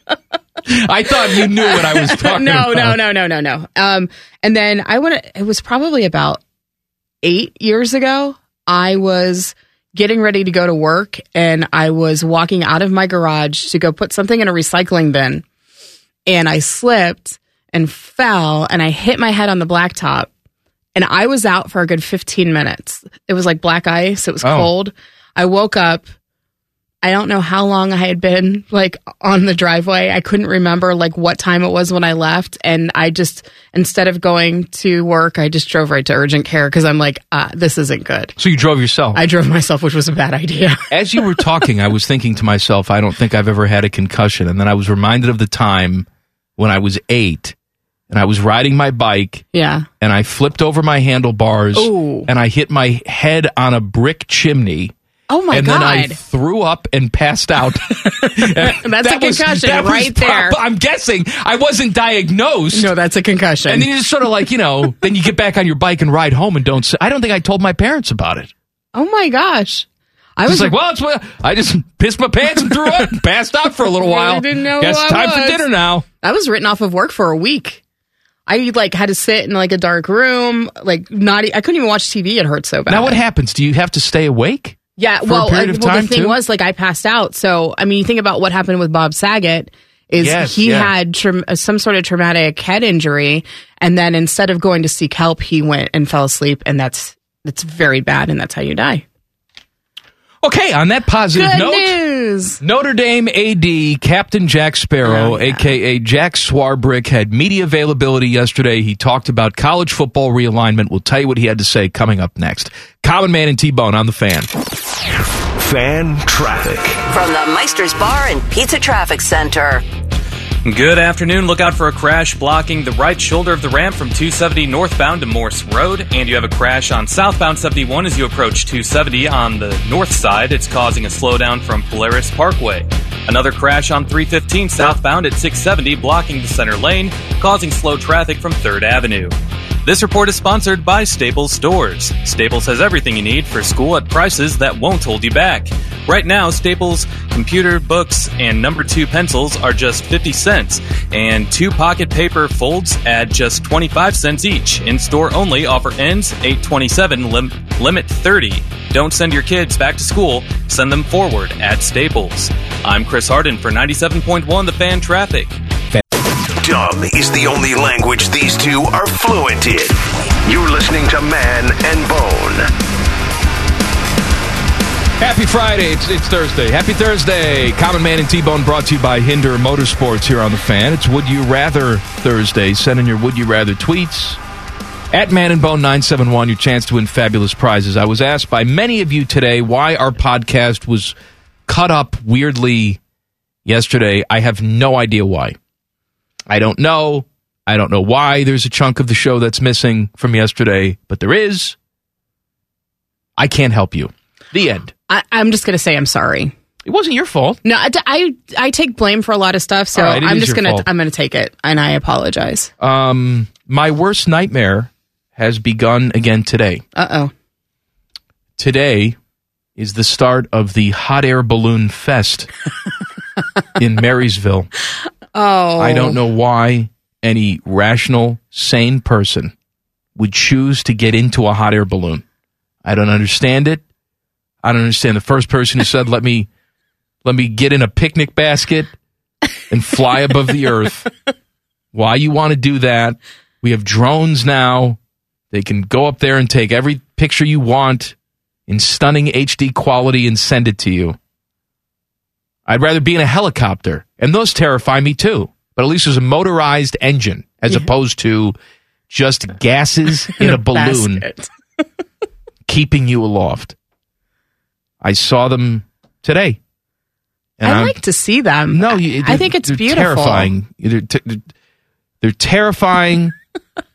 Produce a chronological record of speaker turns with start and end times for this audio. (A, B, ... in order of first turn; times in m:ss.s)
0:00.7-0:03.0 A
0:01.3-0:06.4 B
0:07.2-0:15.4 B
0:16.2-0:20.3 B
0:20.9-0:26.1 B
0:24.4-0:24.7 A
0:27.0-0:38.4 B
0:38.4-0:39.2 A
0:39.1-0:40.8 B
0:40.9-0:46.0 A
0:46.6-0:47.5 A
0:48.1-0:49.4 A
0:49.5-0:49.9 B
0:50.0-0:54.9 A
0:51.7-0:52.3 B
0:55.3-0:56.2 B
0:55.5-1:02.9 A
0:58.2-1:00.6 B
1:02.7-1:03.9 B
1:03.7-1:08.5 A
1:08.9-1:10.7 B
1:10.4-1:16.0 A
1:14.0-1:15.6 B
1:16.2-1:17.8 B
1:18.5-1:23.2 B
1:22.9-1:26.4 A
1:25.0-1:39.0 B
1:30.2-1:30.9 A
1:40.4-1:42.0 A
1:41.3-1:42.6 B
1:42.6-1:54.5 A
1:45.0-1:45.7 B
1:55.6-1:57.0 C
1:57.1-1:59.8 D
2:00.6-2:45.6 E
2:46.6-2:52.7 C
2:55.2-3:04.4 A
3:05.1-3:11.1 A
3:11.7-3:13.0 A
3:13.6-3:15.6 A
3:16.5-3:21.8 A
3:23.4-3:24.9 A
3:25.1-3:26.5 B
3:26.8-3:27.6 A
3:27.6-3:32.7 B
3:29.9-3:30.9 A
3:32.8-3:36.8 A
3:36.9-3:37.3 B
3:38.6-3:39.2 A
3:39.8-3:42.5 A
3:43.8-3:44.7 A
3:45.3-3:46.2 B
3:45.8-3:49.5 A
3:50.2-3:52.2 A
3:52.8-3:53.8 A
3:54.6-3:56.5 A
3:57.2-3:58.9 A
3:59.7-4:01.1 A
4:01.9-4:05.0 A
4:05.5-4:08.1 A
4:08.7-4:11.2 A
4:12.7-4:18.5 A
4:19.1-4:21.2 A
4:20.3-4:21.5 B
4:22.6-4:23.8 A
4:25.0-4:26.6 A
4:27.6-4:28.0 A
4:27.6-4:30.5 B
4:28.7-4:31.5 A
4:32.2-4:33.4 A